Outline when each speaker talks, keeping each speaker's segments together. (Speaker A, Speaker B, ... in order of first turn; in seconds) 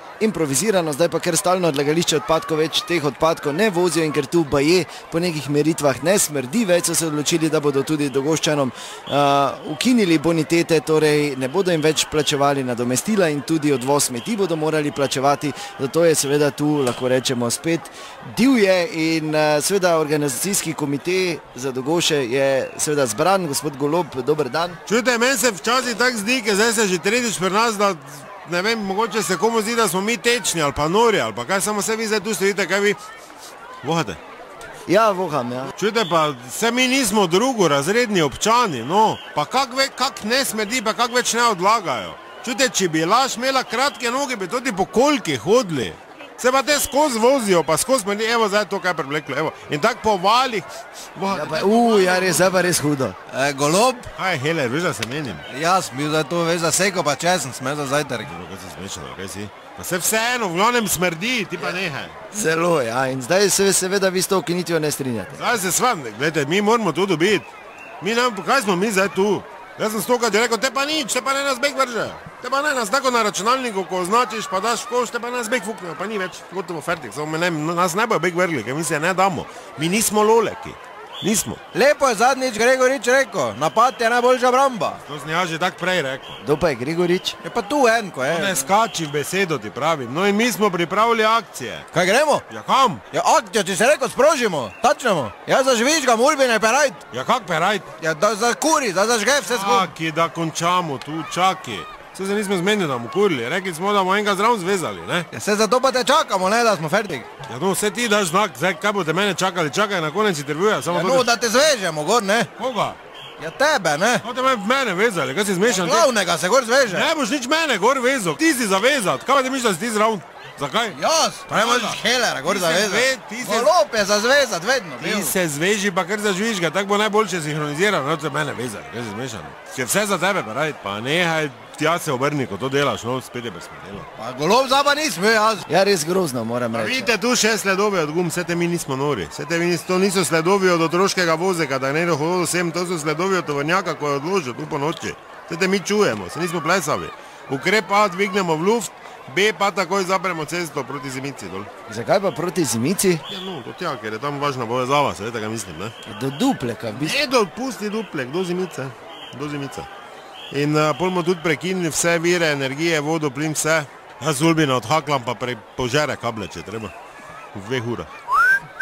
Speaker A: 0.2-24.8, 34.9-35.7, 51.3-53.1, 62.3-65.4, 86.4-87.4, 135.7-137.1, 151.9-153.2, 156.1-157.2
Speaker B: 24.9-33.0, 33.8-34.2, 35.8-52.7, 54.1-55.4, 58.3-62.1, 65.4-67.5, 68.0-81.6, 85.0-86.4, 88.3-91.8, 92.5-93.0, 97.1-97.9, 99.4-105.3, 107.5-111.3, 112.6-113.0, 114.2-116.1, 116.9-123.7, 125.0-134.1, 136.7-151.7, 153.3-155.9, 156.9-159.9, 160.5-166.9, 167.5-168.1
Speaker C: 53.3-54.1, 55.5-58.3, 81.7-85.0, 87.4-88.7, 91.9-92.4, 93.1-97.0, 98.0-99.9, 105.3-107.3, 110.8-112.5, 113.4-114.2, 115.6-117.1, 120.9-125.3, 134.2-135.6